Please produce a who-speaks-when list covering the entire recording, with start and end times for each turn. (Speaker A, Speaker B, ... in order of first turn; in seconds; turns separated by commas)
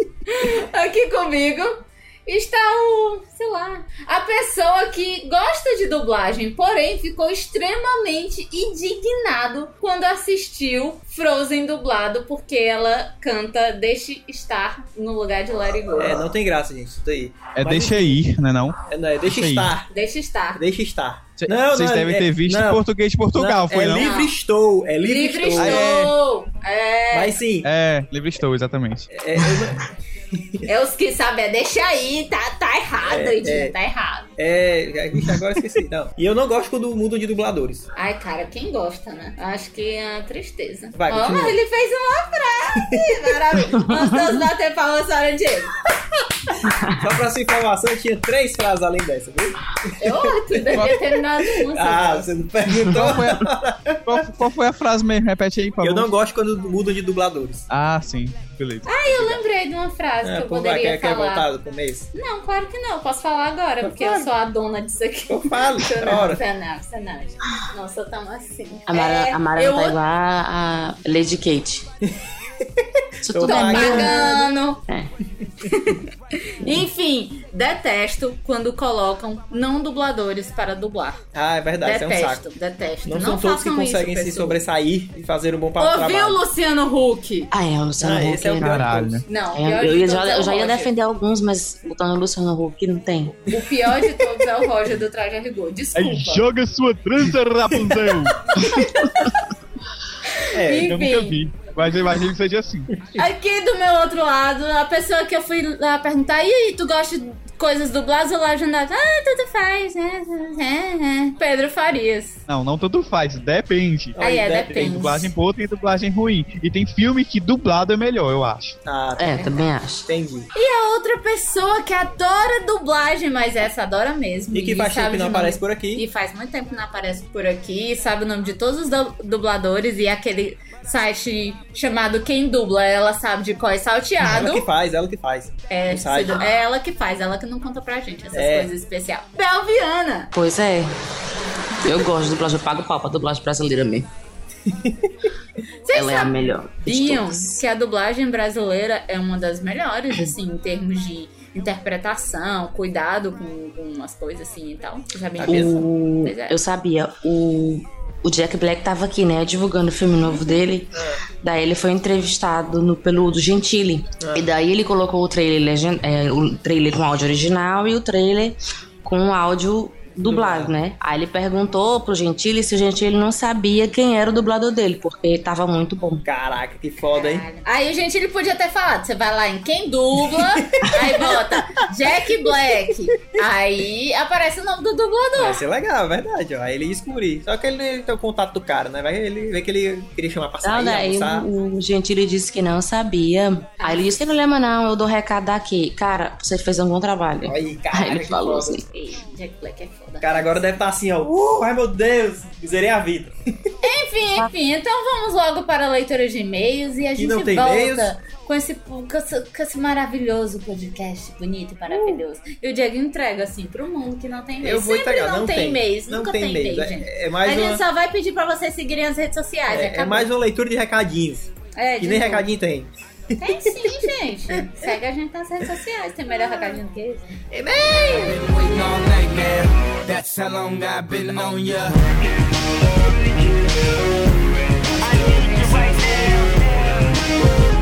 Speaker A: 0.3-16.3, Speaker B: 15.9-18.2, Speaker C: 17.5-19.7, Speaker B: 18.9-19.9, Speaker A: 19.9-20.6, Speaker B: 20.6-25.9, Speaker C: 21.4-24.1, Speaker A: 23.9-24.3, Speaker A: 25.0-27.4, Speaker C: 25.5-26.1, Speaker B: 27.1-27.7, Speaker C: 27.6-29.1, Speaker B: 29.1-30.6, Speaker A: 30.6-34.3, Speaker B: 33.0-33.7, Speaker B: 34.4-37.9, Speaker A: 38.0-45.8, Speaker B: 40.9-41.5, Speaker B: 47.0-51.0, Speaker A: 50.0-52.4, Speaker B: 51.6-54.2, Speaker C: 52.6-53.5, Speaker C: 54.0-56.1, Speaker B: 55.8-57.7, Speaker C: 57.7-59.4, Speaker A: 58.8-61.5, Speaker B: 60.2-62.1, Speaker A: 62.1-70.0, Speaker B: 63.8-64.3, Speaker B: 65.3-66.4, Speaker D: 68.9-71.8, Speaker B: 72.8-74.5, Speaker D: 73.2-74.3, Speaker A: 73.5-74.8, Speaker A: 75.7-81.2, Speaker B: 81.3-82.4, Speaker A: 81.8-84.6, Speaker B: 83.0-86.4, Speaker A: 85.8-87.5, Speaker D: 87.5-88.9, Speaker B: 88.0-89.2, Speaker C: 88.6-89.2, Speaker A: 89.3-90.9, Speaker D: 89.5-93.4, Speaker A: 93.5-96.4, Speaker C: 95.9-98.5, Speaker B: 97.9-99.3, Speaker A: 100.3-101.4, Speaker B: 100.5-100.9, Speaker C: 100.7-102.9, Speaker A: 103.2-112.4, Speaker C: 112.5-114.2, Speaker B: 114.2-115.1, Speaker A: 114.2-115.3, Speaker C: 114.8-118.8, Speaker B: 118.8-119.5, Speaker D: 119.2-120.1, Speaker B: 120.1-120.5, Speaker A: 120.5-134.7, Speaker B: 124.5-126.0, Speaker B: 134.2-136.5, Speaker A: 135.7-140.3, Speaker B: 138.3-138.7, Speaker D: 140.3-140.9, Speaker D: 141.8-144.1, Speaker B: 144.7-145.1, Speaker A: 145.8-156.6, Speaker D: 145.9-147.5, Speaker B: 155.4-155.8, Speaker D: 155.4-176.2, Speaker B: 160.9-161.2, Speaker B: 170.2-170.7, Speaker B: 176.2-177.5, Speaker A: 177.1-185.6, Speaker B: 180.3-181.3, Speaker B: 185.3-191.5, Speaker D: 190.6-198.8, Speaker A: 193.8-194.2, Speaker B: 197.5-198.8, Speaker A: 198.9-200.6, Speaker B: 200.2-203.3, Speaker A: 203.8-220.3, Speaker B: 207.1-208.1, Speaker B: 211.9-212.2, Speaker B: 214.6-217.8, Speaker B: 219.7-222.9, Speaker A: 221.7-222.5, Speaker A: 223.4-227.2, Speaker B: 223.5-223.9, Speaker B: 227.5-228.3, Speaker E: 228.2-232.0, Speaker E: 235.0-237.0